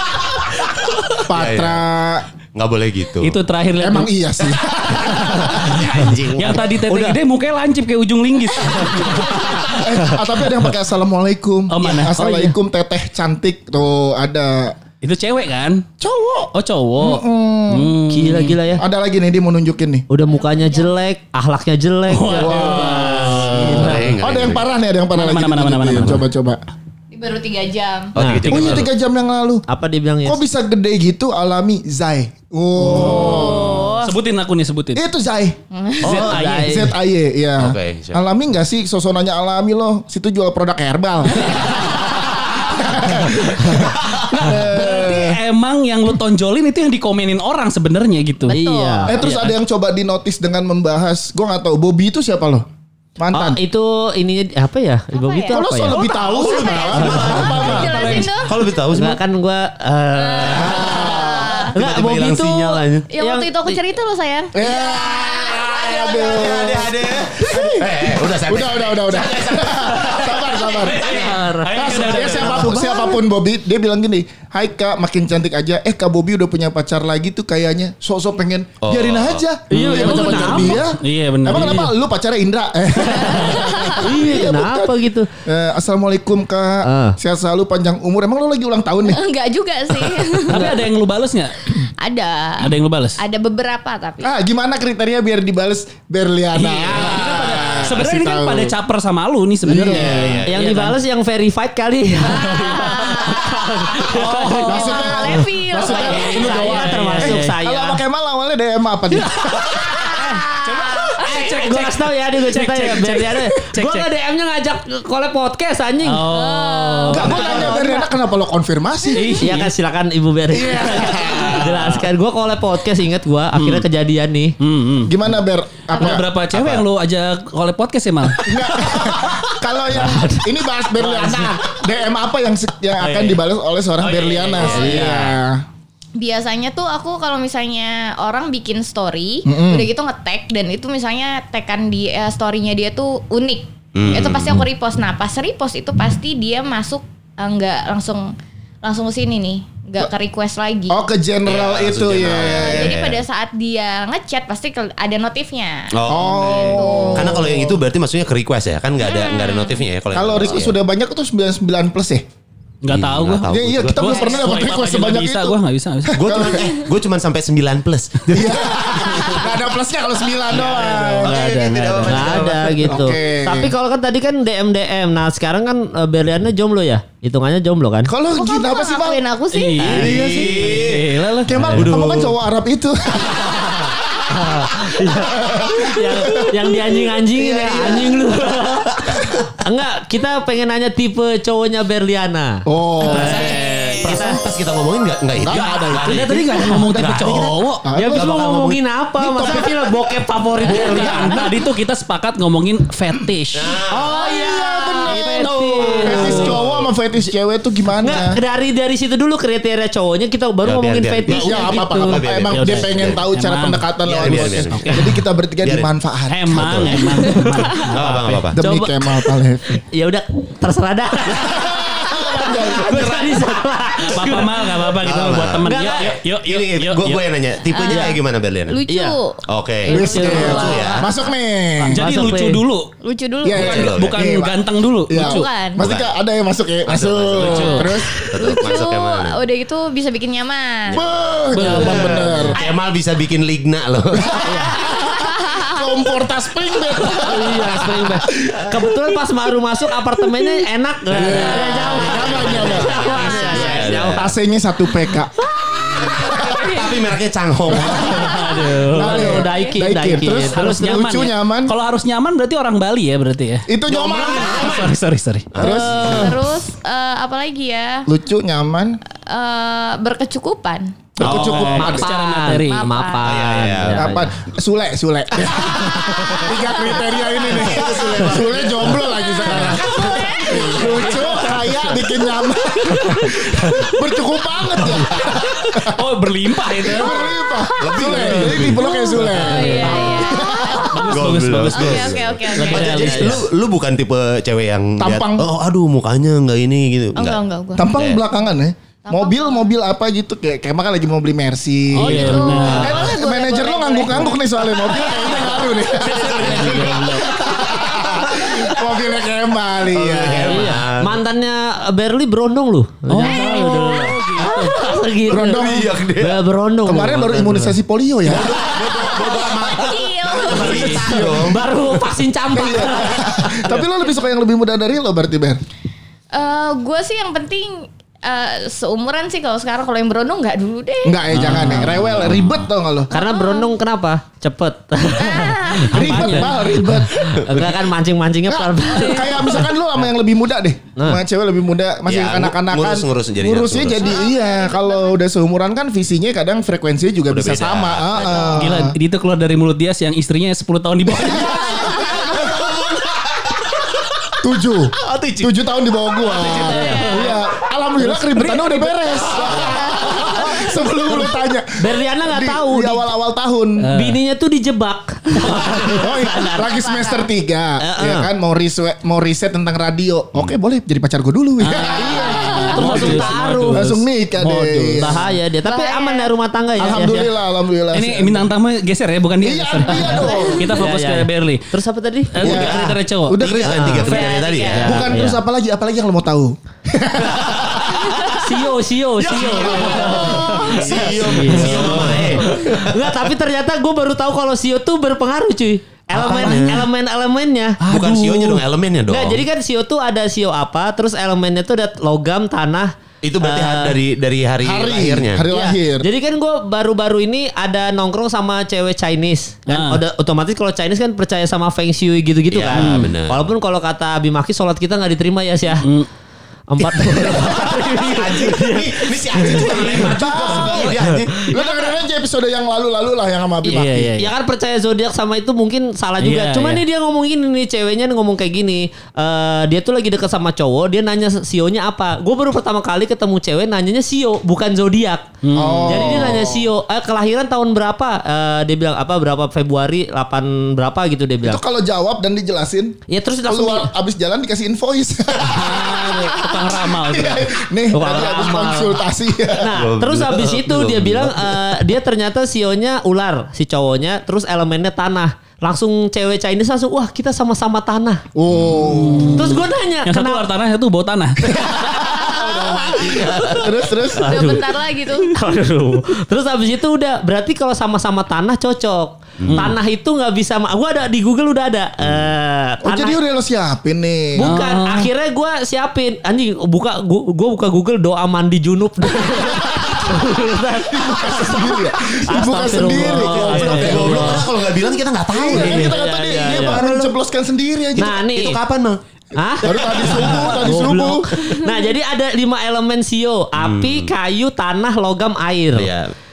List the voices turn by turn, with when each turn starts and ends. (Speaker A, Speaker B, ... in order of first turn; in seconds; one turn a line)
Speaker A: 1.3-2.2
Speaker B: 1.3-1.8
Speaker B: 2.5-3.4
Speaker C: 3.2-4.1
Speaker A: 3.8-5.6
Speaker C: 4.9-10.3
Speaker B: 5.2-7.1
Speaker A: 9.7-14.8
Speaker C: 11.7-12.6
Speaker C: 15.0-15.8
Speaker A: 16.0-17.9
Speaker C: 16.5-18.6
Speaker D: 18.1-18.8
Speaker A: 18.8-20.1
Speaker D: 20.1-23.8
Speaker E: 20.2-20.9
Speaker C: 22.1-24.1
Speaker A: 22.3-26.6
Speaker B: 23.3-24.7
Speaker C: 25.1-26.2
Speaker E: 27.1-28.1
Speaker B: 28.1-28.9
Speaker D: 28.1-28.9
Speaker A: 28.5-29.6
Speaker D: 29.7-30.4
Speaker A: 30.2-33.8
Speaker E: 32.9-34.1
Speaker C: 32.9-35.0
Speaker D: 33.2-33.9
Speaker A: 34.9-35.6
Speaker E: 35.7-36.3
Speaker C: 36.0-36.9
Speaker B: 36.0-36.3
Speaker D: 36.1-36.9
Speaker A: 36.2-45.4
Speaker B: 37.6-38.2
Speaker C: 43.2-48.6
Speaker E: 48.5-49.2
Speaker D: 48.5-49.2
Speaker A: 49.1-52.6
Speaker C: 49.2-49.6
Speaker A: 53.2-53.6
Speaker D: 53.3-56.0
Speaker E: 55.1-58.6
Speaker A: 55.5-58.5
Speaker B: 55.9-59.2
Speaker D: 57.2-57.5
Speaker D: 58.9-63.8
Speaker E: 60.1-61.7
Speaker B: 60.4-60.8
Speaker A: 60.5-61.7
Speaker B: 61.7-63.1
Speaker E: 63.1-66.8
Speaker A: 64.5-84.9
Speaker B: 64.7-65.5
Speaker B: 66.1-71.3
Speaker C: 70.1-73.0
Speaker D: 70.9-72.7
Speaker E: 72.8-73.2
Speaker B: 78.8-79.5
Speaker D: 79.7-80.8
Speaker C: 79.7-81.9
Speaker E: 83.0-84.1
Speaker D: 84.0-85.3
Speaker A: 85.5-89.2
Speaker D: 86.8-87.2
Speaker E: 89.1-90.7
Speaker C: 90.5-91.8
Speaker D: 90.5-90.8
Speaker E: 92.0-94.3
Speaker C: 92.6-93.2
Speaker A: 94.2-98.7
Speaker C: 96.5-101.0
Speaker D: 96.8-97.3
Speaker A: 99.6-100.4
Speaker B: 99.8-100.7
Speaker D: 100.4-108.0
Speaker C: 102.3-103.3
Speaker E: 102.3-107.0
Speaker C: 103.9-105.3
Speaker A: 104.7-110.1
Speaker C: 105.9-107.5
Speaker C: 109.1-114.0
Speaker D: 110.1-116.3
Speaker C: 116.0-117.9
Speaker E: 116.2-118.1
Speaker A: 117.1-119.5
Speaker D: 117.3-117.5
Speaker C: 119.1-119.7
Speaker D: 119.3-124.5
Speaker A: 120.5-121.6
Speaker C: 120.8-122.0
Speaker C: 123.5-123.8
Speaker C: 124.6-131.6
Speaker A: 125.0-126.2
Speaker B: 126.5-126.8
Speaker A: 128.4-135.6
Speaker C: 133.0-133.4
Speaker C: 134.0-135.4
Speaker B: 134.5-135.0
Speaker E: 136.2-151.0
Speaker A: 139.4-139.9
Speaker B: 143.9-144.7
Speaker A: 150.9-153.0
Speaker B: 151.4-153.2
Speaker E: 152.3-157.5
Speaker B: 155.9-160.8
Speaker A: 156.1-157.8
Speaker E: 159.0-159.8
Speaker A: 160.1-162.2
Speaker C: 162.8-166.2
Speaker B: 162.9-164.4
Speaker A: 163.5-166.8
Speaker B: 166.1-169.5
Speaker A: 168.3-171.4
Speaker B: 170.4-172.9
Speaker C: 170.5-172.6
Speaker D: 172.0-178.1
Speaker A: 172.8-173.7
Speaker A: 178.1-179.2
Speaker E: 178.3-180.1
Speaker C: 179.5-181.5
Speaker B: 179.8-181.1
Speaker A: 180.0-180.9
Speaker A: 181.4-188.3
Speaker D: 181.5-181.9
Speaker B: 181.7-182.4
Speaker D: 184.3-194.4
Speaker A: 192.7-194.4
Speaker B: 193.1-198.8
Speaker A: 195.4-198.4
Speaker C: 195.5-197.8
Speaker D: 197.9-201.5
Speaker A: 199.2-200.1
Speaker C: 200.6-203.8
Speaker A: 200.6-201.5
Speaker B: 203.5-204.1
Speaker A: 203.9-208.4
Speaker D: 204.0-206.5
Speaker C: 205.0-206.6
Speaker B: 206.2-206.9
Speaker D: 208.0-213.1
Speaker B: 210.6-213.3
Speaker A: 211.2-216.9
Speaker C: 213.3-213.8
Speaker B: 214.0-215.1
Speaker C: 214.4-215.2
Speaker B: 215.6-215.9
Speaker C: 216.3-219.3
Speaker B: 216.5-218.6
Speaker A: 218.6-219.8
Speaker D: 219.9-224.9
Speaker A: 221.3-223.4
Speaker C: 224.1-227.2
Speaker B: 225.0-228.8
Speaker D: 225.6-226.2
Speaker E: 227.7-228.1
Speaker D: 227.9-228.2
Speaker E: 228.7-231.1
Speaker D: 228.9-229.2
Speaker B: 229.5-231.1
Speaker D: 229.8-231.0
Speaker A: 229.9-232.0
Speaker C: 231.8-232.9
Speaker D: 231.9-232.6
Speaker E: 233.0-233.9
Speaker A: 233.4-238.3
Speaker B: 233.5-234.2
Speaker C: 233.5-235.5
Speaker E: 235.1-235.8
Speaker B: 235.8-236.1
Speaker B: 236.8-239.4
Speaker C: 237.4-237.9
Speaker E: 237.5-241.0
Speaker B: 240.9-244.7
Speaker A: 240.9-242.6
Speaker C: 241.5-242.4
Speaker D: 241.7-242.2
Speaker E: 242.1-242.7
Speaker A: 244.3-248.9
Speaker E: 244.8-245.8
Speaker D: 247.2-254.3
Speaker A: 251.1-255.4
Speaker E: 251.7-252.0
Speaker B: 252.2-254.3
Speaker E: 252.9-253.6
Speaker D: 255.6-256.1
Speaker A: 256.0-256.6
Speaker E: 256.0-256.9
Speaker B: 256.0-258.6
Speaker A: 257.7-258.4
Speaker C: 258.0-259.5
Speaker D: 258.2-260.6
Speaker A: 258.9-261.7
Speaker E: 259.3-259.8
Speaker C: 260.1-263.7
Speaker A: 263.7-264.9
Speaker B: 263.9-264.9
Speaker C: 264.5-265.5
Speaker B: 265.5-266.3
Speaker A: 265.6-266.3
Speaker D: 265.6-266.3
Speaker E: 265.9-268.1
Speaker A: 268.1-269.0
Speaker E: 269.1-270.9
Speaker A: 271.2-272.1
Speaker C: 271.2-273.0
Speaker D: 271.2-274.3
Speaker B: 271.2-271.7
Speaker E: 272.5-273.3
Speaker B: 273.2-274.1
Speaker A: 273.9-286.0
Speaker B: 275.4-276.5
Speaker B: 277.5-279.1
Speaker E: 279.3-282.0
Speaker C: 279.5-280.0
Speaker D: 279.5-280.2
Speaker C: 280.6-282.0
Speaker C: 282.9-283.9
Speaker C: 284.8-287.4
Speaker A: 286.8-290.9
Speaker E: 287.6-288.0
Speaker B: 287.8-288.9
Speaker C: 288.1-293.4
Speaker E: 288.6-293.2
Speaker B: 291.0-298.2
Speaker D: 292.6-293.4
Speaker A: 295.0-295.4
Speaker E: 297.1-297.9
Speaker A: 297.8-310.8
Speaker E: 299.0-299.7
Speaker C: 301.9-303.1
Speaker E: 301.9-305.5
Speaker C: 305.1-307.4
Speaker B: 305.8-308.4
Speaker B: 309.9-311.2
Speaker D: 310.4-317.8
Speaker C: 313.1-315.1
Speaker E: 313.6-314.1
Speaker A: 315.3-316.0
Speaker B: 315.5-316.4
Speaker A: 316.9-318.6
Speaker B: 318.2-321.8
Speaker E: 318.4-321.0
Speaker C: 320.5-321.0
Speaker D: 320.8-323.6
Speaker A: 320.9-321.4
Speaker A: 322.5-325.6
Speaker E: 326.3-331.7
Speaker A: 331.0-333.1
Speaker C: 331.3-331.9
Speaker D: 331.3-332.3
Speaker D: 333.1-339.6
Speaker E: 333.1-333.7
Speaker E: 335.1-336.4
Speaker A: 335.8-337.6
Speaker C: 336.1-336.5
Speaker B: 337.2-337.8
Speaker A: 338.5-348.9
Speaker E: 338.9-339.2
Speaker B: 342.1-344.2
Speaker E: 344.0-345.2
Speaker B: 347.3-348.6
Speaker C: 348.5-352.0
Speaker A: 351.1-352.1
Speaker B: 351.4-353.6
Speaker A: 354.4-363.9
Speaker B: 355.0-355.5
Speaker E: 356.4-357.3
Speaker D: 356.5-357.4
Speaker C: 356.8-357.3
Speaker C: 358.0-359.6
Speaker D: 361.8-363.1
Speaker C: 363.8-364.2
Speaker D: 363.9-366.7
Speaker C: 365.4-366.1
Speaker A: 365.9-375.3
Speaker E: 366.6-367.3
Speaker D: 367.8-368.3
Speaker D: 371.6-374.0
Speaker C: 371.8-375.1
Speaker E: 371.9-373.1
Speaker D: 375.0-377.3
Speaker E: 375.6-376.3
Speaker A: 376.8-378.5
Speaker C: 377.9-381.7
Speaker A: 379.4-380.6
Speaker E: 380.0-380.8
Speaker D: 380.6-382.6
Speaker C: 382.3-383.4
Speaker A: 382.4-384.2
Speaker B: 382.4-385.1
Speaker D: 383.7-385.4
Speaker E: 384.0-385.0
Speaker C: 384.1-384.4
Speaker A: 384.8-388.2
Speaker D: 388.3-397.8
Speaker B: 389.2-393.1
Speaker A: 389.7-391.0
Speaker C: 390.1-390.5
Speaker E: 390.3-390.6
Speaker C: 391.1-392.5
Speaker B: 396.1-396.8
Speaker C: 396.4-396.8
Speaker C: 397.8-398.6
Speaker B: 397.8-399.4
Speaker D: 399.1-404.0
Speaker B: 403.2-405.4
Speaker A: 404.6-406.1
Speaker D: 405.5-415.9
Speaker C: 409.7-410.0
Speaker B: 412.5-413.4
Speaker C: 412.7-413.2
Speaker C: 415.8-416.1
Speaker D: 416.7-420.1
Speaker C: 416.8-418.5
Speaker B: 418.1-421.5
Speaker C: 419.4-419.9
Speaker A: 419.7-424.2
Speaker C: 420.5-420.9
Speaker D: 420.7-421.9
Speaker C: 423.6-424.3
Speaker D: 423.7-435.3
Speaker C: 426.2-426.8
Speaker C: 435.4-436.3
Speaker A: 435.5-436.6
Speaker D: 435.8-441.6
Speaker A: 441.4-446.1
Speaker D: 443.1-443.9
Speaker C: 445.4-447.5
Speaker A: 447.0-449.7
Speaker D: 447.9-449.0
Speaker D: 449.6-458.2
Speaker B: 449.7-451.8
Speaker A: 458.4-459.5
Speaker B: 458.5-458.9
Speaker C: 458.9-462.1
Speaker D: 459.3-460.4
Speaker A: 461.5-464.5
Speaker E: 462.4-463.3
Speaker B: 462.8-463.7
Speaker D: 464.1-473.2
Speaker E: 464.1-465.4
Speaker B: 469.4-469.7
Speaker C: 469.4-469.7
Speaker A: 472.8-474.5
Speaker D: 474.4-484.5
Speaker C: 474.4-475.1
Speaker A: 479.4-479.8
Speaker A: 480.9-484.5
Speaker C: 482.9-484.2
Speaker B: 483.4-486.9
Speaker A: 485.3-488.2
Speaker D: 485.4-487.1
Speaker D: 487.9-488.6
Speaker B: 488.1-489.0
Speaker D: 489.3-495.9
Speaker A: 489.6-491.3
Speaker B: 490.1-490.4
Speaker B: 493.6-494.1
Speaker B: 495.7-496.1